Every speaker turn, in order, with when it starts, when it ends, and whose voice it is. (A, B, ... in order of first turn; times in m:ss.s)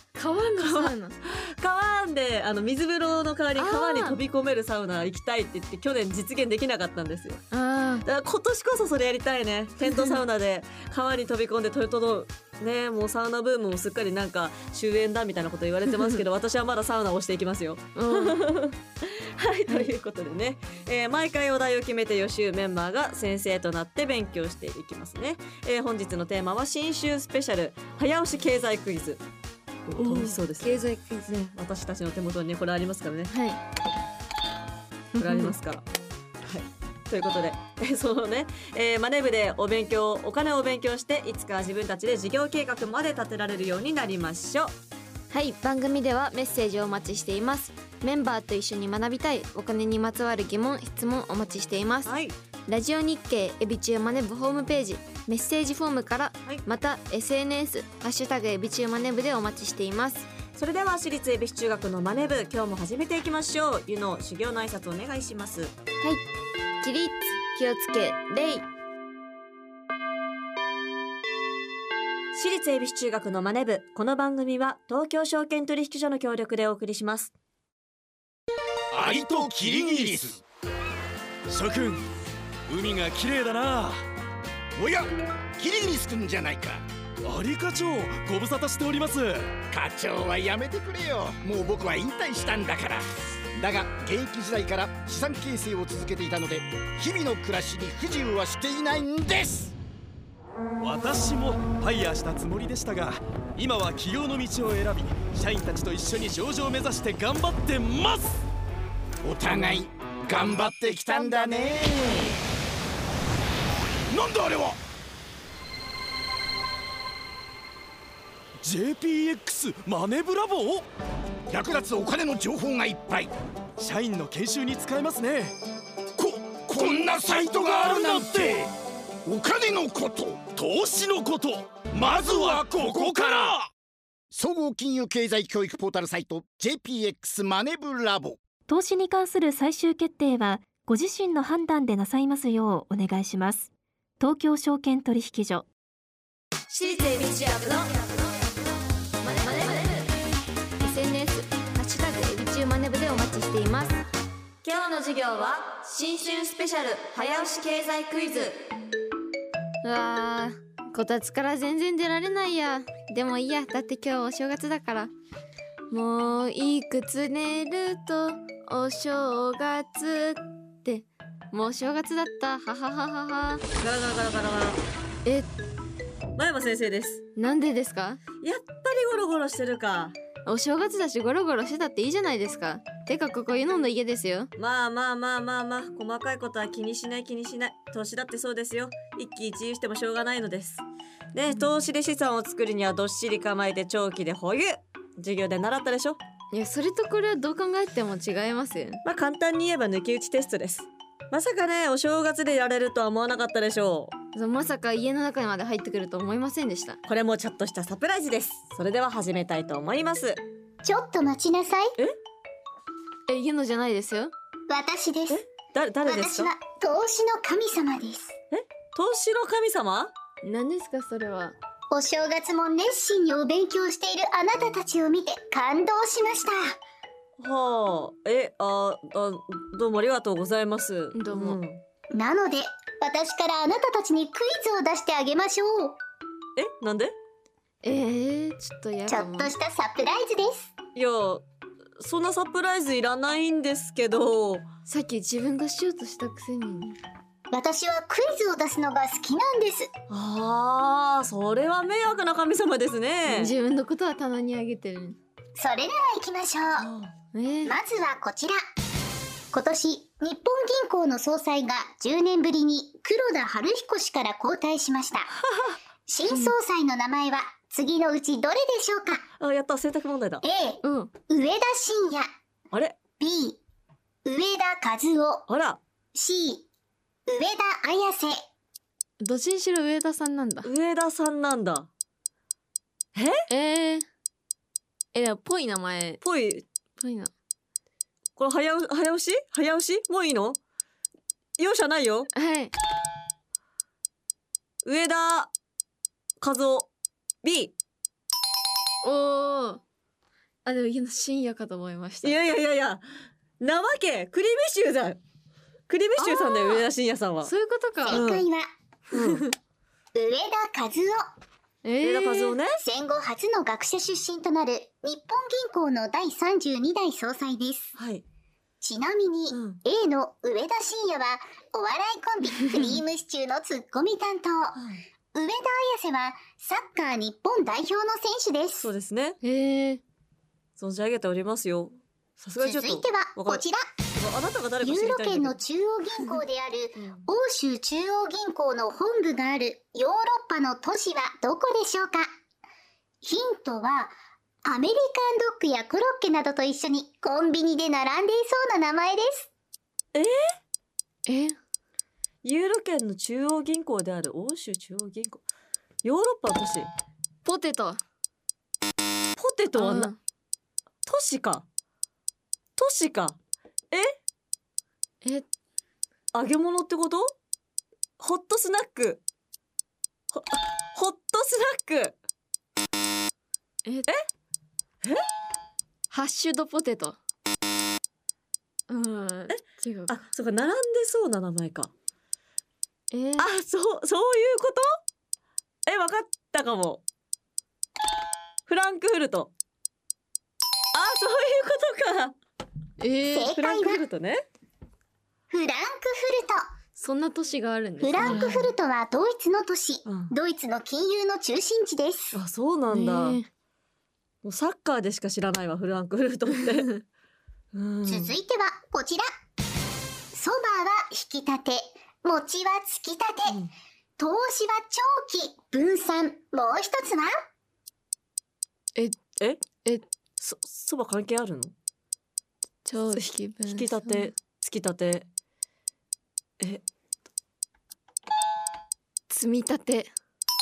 0:00.1-0:01.2 A
0:00.6-0:07.4 B
0:03.6-0:04.2 A
0:07.5-0:08.0 A
0:08.0-0:29.2 B
0:09.8-0:10.2 A
0:18.0-0:18.4 A
0:29.9-0:33.3 B
0:30.0-0:31.3 A
0:33.3-0:33.6 A
0:35.2-0:35.5 A
0:35.2-0:35.8 B
0:36.4-0:44.7 B
0:45.3-0:52.1 A
0:52.1-0:52.3 B
0:52.7-1:00.3 A
1:00.5-1:05.7 B
1:06.8-1:08.6 A
1:12.3-1:17.3 B
1:19.0-1:20.3 C
1:19.0-1:20.4 D
1:21.5-1:22.0 C
1:22.7-1:24.0 C
1:24.8-1:26.8 D
1:27.2-1:29.6 C
1:29.7-1:39.7 D
1:40.8-1:48.4 C
1:49.2-1:52.3 D
1:50.9-1:51.6 C
1:54.2-1:54.8 D
1:58.6-2:00.8 C
2:01.5-2:03.3 D
2:03.8-2:05.6 C
2:06.2-2:08.7 D
2:06.8-2:08.6 C
2:09.2-2:10.6 D
2:10.6-2:13.6 C
2:11.9-2:13.6 D
2:14.3-2:18.4 D
2:18.7-2:23.7 E
2:24.2-2:25.7 E
2:26.7-2:28.1 A
2:29.2-2:30.1 A
2:30.8-2:34.0 A
2:34.6-2:35.8 B
2:35.9-2:36.4 A
2:37.4-2:38.5 B
2:39.8-2:45.1 A
2:45.9-2:53.6 A
2:53.8-2:54.8 B
2:55.2-2:55.5 A
2:56.4-2:57.2 B
2:57.4-2:58.2 A
2:58.4-3:00.2 B
3:00.4-3:04.5 A
3:04.6-3:16.2 B
3:16.5-3:19.0 A
3:19.0-3:24.2 B
3:24.3-3:27.0 A
3:27.1-3:30.4 B
3:30.8-3:31.9 F
3:33.3-3:34.3 A
3:34.7-3:35.4 F
3:35.3-3:36.5 B
3:36.0-3:38.3 F
3:38.5-3:40.1 B
3:40.4-3:41.6 A
3:41.9-3:46.6 F
3:47.4-3:51.8 B
3:51.1-3:51.6 A
3:52.1-3:56.0 F
3:56.6-3:57.2 B
3:57.8-3:59.5 A
3:59.1-4:00.7 F
4:00.9-4:01.4 B
4:02.0-4:04.6 B
4:04.9-4:07.0 A
4:07.5-4:09.9 F
4:10.1-4:13.6 B
4:13.3-4:15.2 A
4:15.6-4:16.9 F
4:16.8-4:17.1 B
4:17.3-4:17.8 A
4:17.7-4:18.6 F
4:19.5-4:25.3 F
4:26.1-4:29.2 F
4:29.4-4:30.4 B
4:30.4-4:32.2 F
4:30.8-4:31.1 A
4:33.2-4:33.6 F
4:34.2-4:35.4 F
4:35.5-4:35.8 B
4:36.2-4:36.7 F
4:37.3-4:38.4 F
4:39.2-4:40.7 A
4:40.6-4:41.9 B
4:43.2-4:43.4 B
4:43.5-4:44.1 A
4:45.1-4:46.2 A
4:46.2-4:46.6 B
4:47.0-4:47.3 A
4:48.4-4:50.6 B
4:51.6-4:52.3 B
4:52.3-4:52.7 A
4:54.8-4:55.5 B
4:56.4-4:56.9 B
4:57.4-4:57.7 B
4:59.0-4:59.8 A
5:00.6-5:02.4 A
5:02.2-5:03.0 B
5:03.6-5:05.2 B
5:05.9-5:07.5 B
5:06.2-5:06.9 A
5:07.4-5:08.2 A
5:08.0-5:08.7 F
5:08.1-5:08.4 B
5:09.1-5:09.4 B
5:10.2-5:11.2 F
5:11.8-5:12.6 A
5:12.0-5:12.8 B
5:12.8-5:17.9 F
5:18.0-5:18.2 B
5:18.8-5:24.8 F
5:19.5-5:19.8 B
5:25.3-5:28.9 F
5:28.8-5:29.4 B
5:29.4-5:30.0 A
5:30.8-5:33.6 B
5:32.6-5:33.8 F
5:34.2-5:35.6 B
5:34.8-5:42.2 F
5:37.0-5:37.2 B
5:43.2-5:44.2 F
5:44.7-5:49.5 F
5:51.2-5:51.6 A
5:52.4-5:55.4 B
5:56.0-5:56.9 B
5:57.4-5:58.0 A
5:59.4-6:00.1 B
5:59.8-6:00.2 A
6:01.1-6:01.7 B
6:02.8-6:03.4 B
6:03.9-6:04.2 B
6:06.3-6:07.3 B
6:08.2-6:09.2 B
6:10.3-6:12.2 B
6:16.1-6:17.2 A
6:18.9-6:20.1 A
6:19.5-6:21.9 B
6:23.1-6:23.5 A
6:23.4-6:24.9 B
6:25.8-6:27.0 B
6:28.7-6:29.5 B
6:30.9-6:32.3 B
6:33.0-6:33.5 A
6:33.3-6:34.0 F
6:33.5-6:34.4 B
6:35.5-6:36.6 F
6:37.0-6:38.7 A
6:38.0-6:42.4 F
6:38.2-6:38.6 B
6:40.1-6:40.3 B
6:42.3-6:43.4 B
6:42.9-6:43.5 A
6:44.4-6:47.0 B
6:47.7-6:48.4 B
6:48.1-6:49.3 F
6:50.3-6:53.6 F
6:54.2-6:57.3 F
7:00.4-7:01.8 B
7:02.8-7:04.3 A
7:03.1-7:05.3 B
7:09.3-7:10.1 A